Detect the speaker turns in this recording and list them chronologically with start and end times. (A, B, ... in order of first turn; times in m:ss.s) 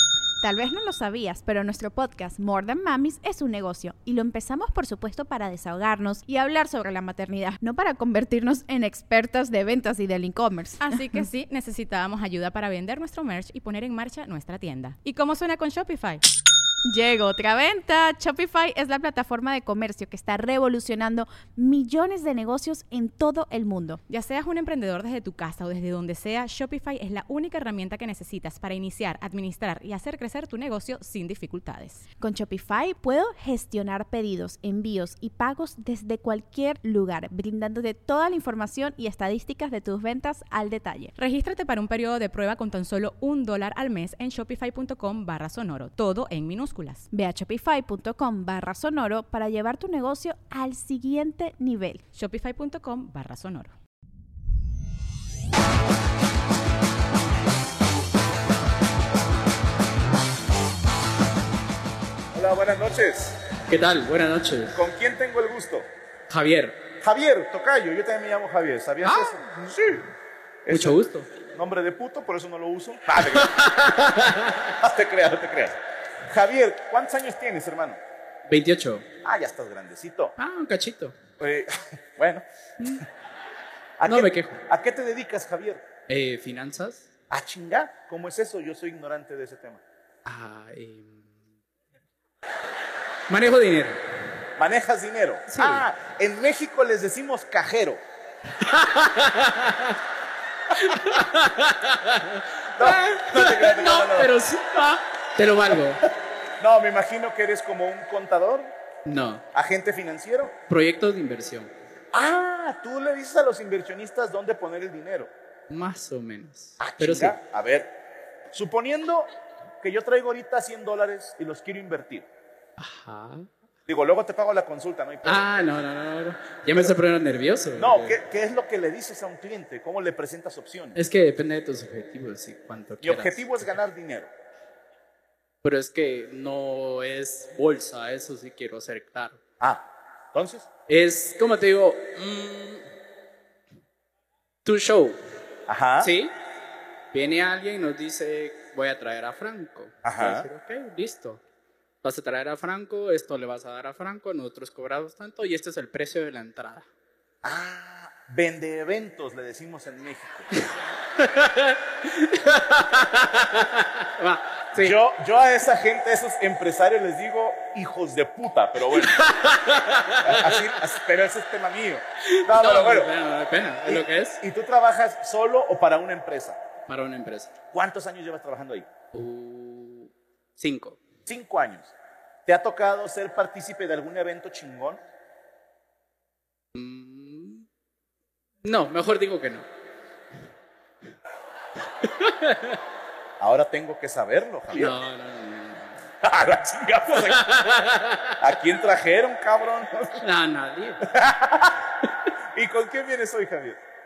0:00.4-0:11.2 A
0:10.8-0:16.2 B
0:16.9-0:24.0 A
0:24.1-0:32.0 B
0:32.2-0:41.1 A
0:41.2-0:47.1 B
0:47.1-0:52.0 A
0:52.1-0:53.8 B
1:02.3-1:03.4 C
1:03.7-1:04.8 D
1:04.7-1:05.9 C
1:06.3-1:06.8 D
1:07.0-1:10.0 C
1:09.0-1:09.7 D
1:10.6-1:13.6 C
1:10.7-1:11.3 D
1:13.2-1:14.7 D
1:14.8-1:15.8 C
1:16.3-1:18.0 C
1:18.5-1:19.0 D
1:19.2-1:20.3 C
1:20.4-1:21.1 D
1:21.4-1:22.4 C
1:24.0-1:25.8 C
1:24.0-1:24.6 D
1:26.1-1:27.1 D
1:27.3-1:29.8 C
1:30.2-1:31.5 D
1:33.3-1:34.4 D
1:34.6-1:38.0 C
1:35.5-1:35.8 D
1:38.6-1:40.0 D
1:40.7-1:46.0 D
1:42.8-1:44.3 C
1:46.6-1:48.7 C
1:49.0-1:49.4 D
1:49.5-1:50.5 C
1:50.7-1:51.7 D
1:52.1-1:55.3 C
1:55.7-1:57.4 D
1:56.8-1:57.9 C
1:58.5-2:02.3 C
2:02.8-2:03.5 D
2:03.9-2:05.5 C
2:05.2-2:08.2 D
2:07.8-2:11.0 C
2:11.0-2:13.4 D
2:13.0-2:14.3 C
2:15.6-2:19.4 D
2:19.6-2:20.7 C
2:20.9-2:22.9 D
2:24.6-2:25.2 D
2:25.7-2:26.1 C
2:26.0-2:26.3 D
2:27.1-2:31.4 D
2:30.0-2:30.5 C
2:32.0-2:36.9 D
2:37.4-2:40.5 C
2:40.6-2:45.0 D
2:44.7-2:49.2 C
2:49.0-2:50.7 D
2:50.2-2:53.1 C
2:52.3-2:54.4 D
2:53.8-2:56.6 C
2:56.9-2:57.5 D
2:57.7-2:58.9 C
2:59.1-3:01.0 D
3:01.2-3:01.9 C
3:02.4-3:05.0 C
3:06.7-3:07.6 D
3:08.6-3:09.7 D
3:12.0-3:12.8 D
3:13.4-3:15.0 C
3:14.7-3:16.0 D
3:16.2-3:17.7 C
3:17.2-3:18.4 D
3:18.4-3:20.2 C
3:20.2-3:21.0 D
3:21.0-3:21.9 C
3:22.5-3:23.8 C